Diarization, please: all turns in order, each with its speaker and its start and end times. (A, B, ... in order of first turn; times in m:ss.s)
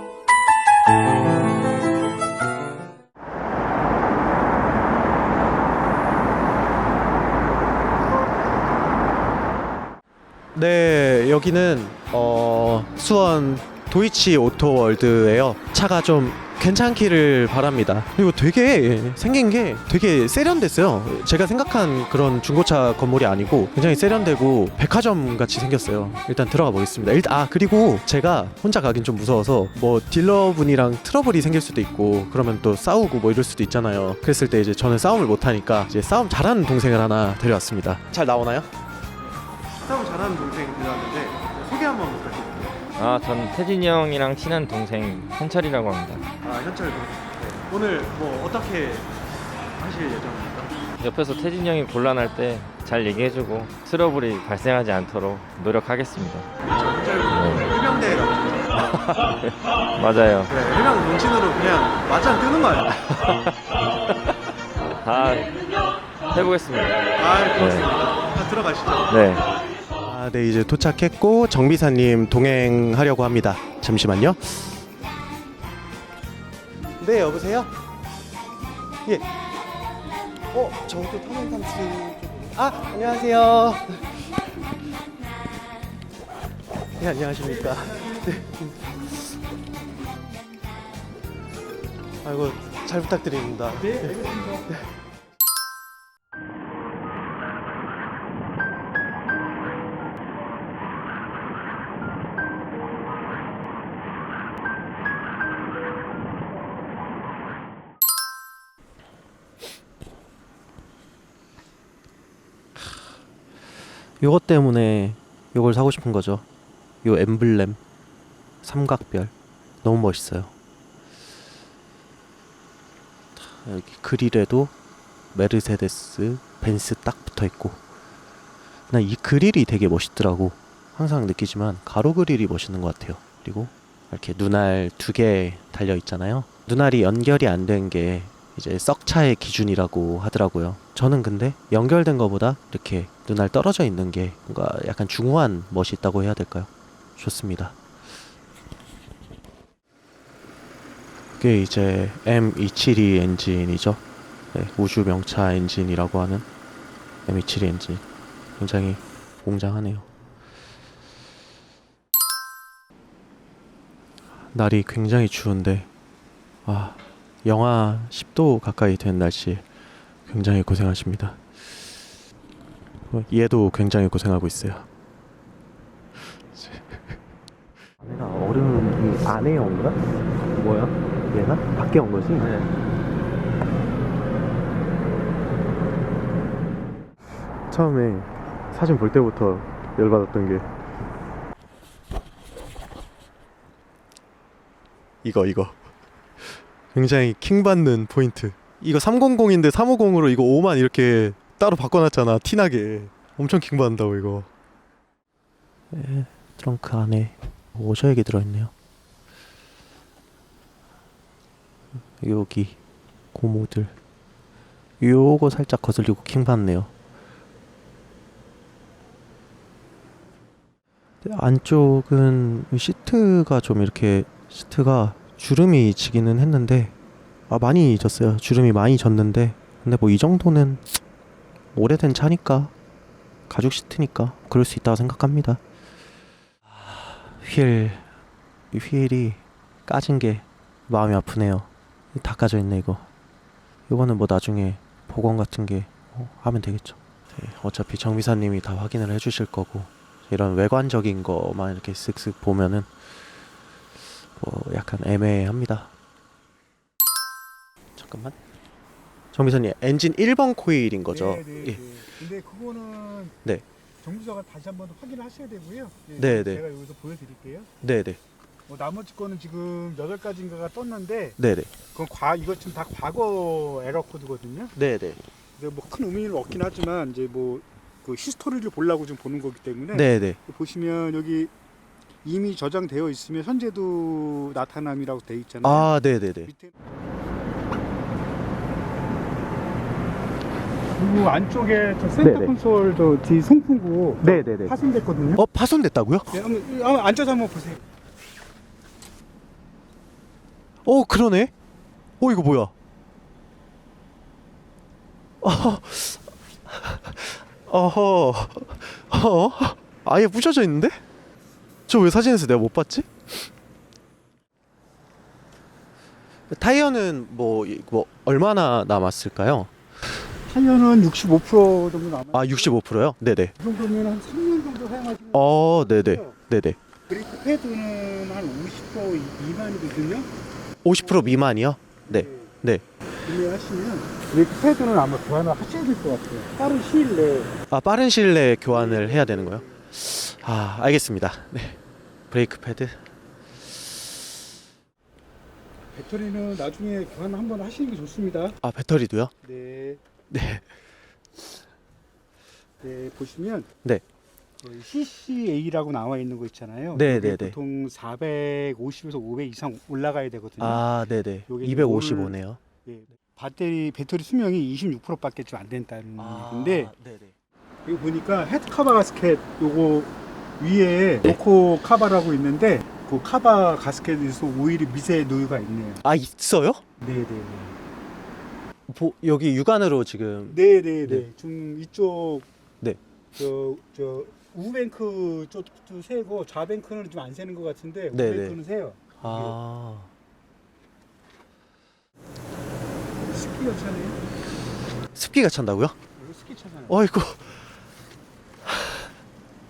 0:10.6-0:38.7 A
0:39.8-0:42.8 A
0:43.0-0:46.3 B
0:46.4-0:49.1 A
0:49.8-0:50.8 A
0:51.0-0:56.5 B
0:56.6-0:59.1 A
0:57.3-0:57.8 B
0:58.7-1:00.5 B
1:00.5-1:03.2 A
1:03.2-1:03.4 B
1:05.0-1:05.6 B
1:06.3-1:07.9 B
1:07.2-1:09.2 A
1:09.1-1:09.5 B
1:10.0-1:14.8 A
1:17.0-1:17.7 A
1:20.5-1:24.2 A
1:27.0-1:29.4 A
1:32.2-1:34.9 A
1:54.2-1:56.4 A
1:57.0-1:57.8 A
1:58.6-2:00.5 A
2:03.4-2:04.7 A
2:05.3-2:07.8 A
2:08.9-2:27.8 A
2:31.4-2:34.0 A
2:34.5-2:36.5 A
2:37.3-2:38.0 A
2:38.6-2:40.1 A
2:44.5-2:45.9 A
2:46.7-2:49.6 A
2:50.3-2:51.9 A
2:53.1-2:54.9 A
2:56.5-2:57.2 A
2:58.0-3:00.0 A
3:00.5-3:02.7 A
3:07.7-3:10.7 A
3:15.2-3:15.8 A
3:16.9-3:24.5 A
3:25.9-3:28.7 A
3:32.2-3:32.8 A
3:33.3-3:33.9 A
3:35.0-3:36.9 A
3:41.2-3:46.9 A
3:47.5-3:50.8 A
3:51.7-3:52.7 A
3:53.5-3:55.6 A
3:56.7-3:58.0 A
3:58.7-4:03.0 A
4:03.9-4:12.9 A
4:14.4-4:15.9 A
4:18.0-4:18.4 A
4:19.3-4:21.8 A
4:21.1-4:23.4 C
4:24.0-4:27.7 C
4:26.2-4:26.6 A
4:27.8-4:28.2 A
4:28.7-4:31.4 C
4:31.4-4:31.7 A
4:31.9-4:34.7 C
4:34.8-4:35.2 A
4:35.6-4:41.5 C
4:39.9-4:40.4 A
4:42.2-4:45.9 C
4:45.6-4:46.5 A
4:46.5-4:46.7 C
4:51.0-4:55.4 C
4:52.2-4:52.6 A
4:54.2-4:54.8 A
4:55.4-4:56.3 A
4:56.3-4:57.8 C
5:00.8-5:01.5 A
5:02.2-5:02.7 A
5:05.4-5:11.0 A
5:11.9-5:13.5 A
5:16.5-5:19.7 A
5:20.5-5:22.8 C
5:22.3-5:23.5 A
5:23.6-5:26.4 C
5:25.3-5:26.8 A
5:27.1-5:30.3 C
5:30.8-5:32.8 A
5:31.0-5:31.5 C
5:32.1-5:32.5 C
5:33.2-5:37.5 C
5:37.7-5:43.0 A
5:38.7-5:39.8 C
5:45.9-5:48.6 C
5:48.6-5:49.3 A
5:49.4-5:50.0 C
5:50.3-5:50.6 A
5:52.8-5:53.7 C
5:54.6-6:00.9 C
5:57.0-5:57.6 A
6:00.6-6:02.6 A
6:01.5-6:06.9 C
6:06.2-6:07.3 A
6:07.9-6:16.0 C
6:16.0-6:16.8 A
6:17.0-6:17.8 C
6:18.9-6:21.3 A
6:20.5-6:22.5 C
6:23.4-6:29.6 C
6:28.1-6:28.6 A
6:29.2-6:30.1 A
6:33.3-6:34.2 C
6:35.1-6:36.0 A
6:36.2-6:37.0 C
6:36.9-6:37.6 A
6:38.7-6:39.0 A